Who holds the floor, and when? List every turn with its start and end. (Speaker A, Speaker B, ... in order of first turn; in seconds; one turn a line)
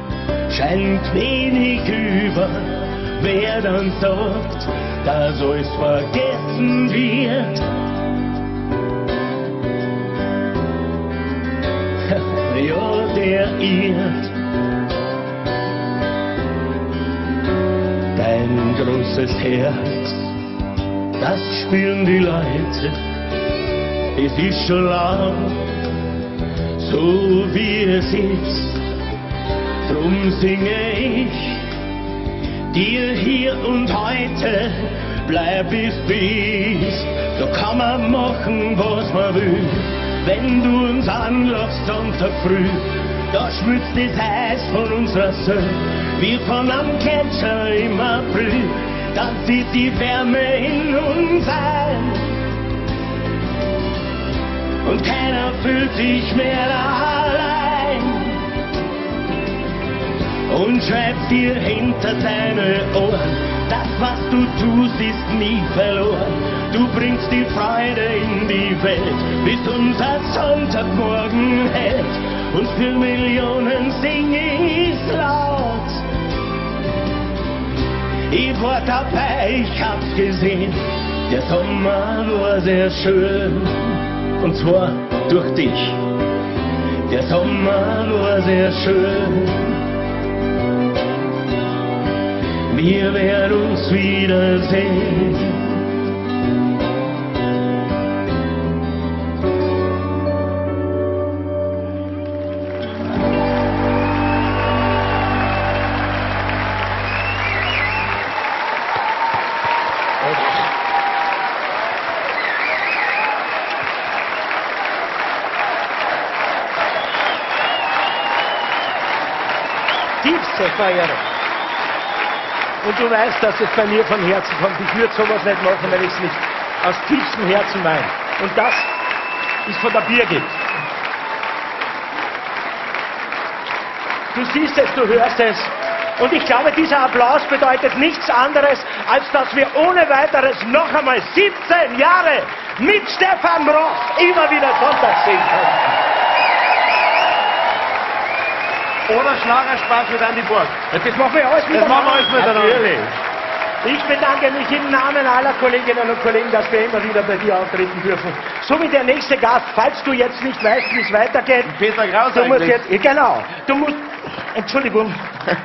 Speaker A: 0.5-7.6
Speaker A: 12.1-14.3
Speaker A: 18.1-20.3
Speaker A: 21.2-23.0
Speaker A: 24.1-25.8
Speaker A: 26.8-28.8
Speaker A: 29.9-31.7
Speaker A: 32.7-52.2
Speaker B: 33.4-34.3
Speaker B: 37.5-38.9
Speaker B: 40.5-41.2
Speaker A: 54.8-58.5
Speaker A: 60.5-76.0
Speaker A: 78.3-86.1
Speaker A: 87.1-89.8
Speaker A: 92.7-95.8
Speaker B: 120.2-121.2
Speaker B: 122.8-128.9
Speaker B: 129.7-130.6
Speaker B: 134.3-146.0
Speaker C: 149.1-150.8
Speaker B: 150.9-153.2
Speaker C: 151.7-152.9
Speaker B: 153.8-161.8
Speaker C: 161.7-162.8
Speaker B: 162.3-165.3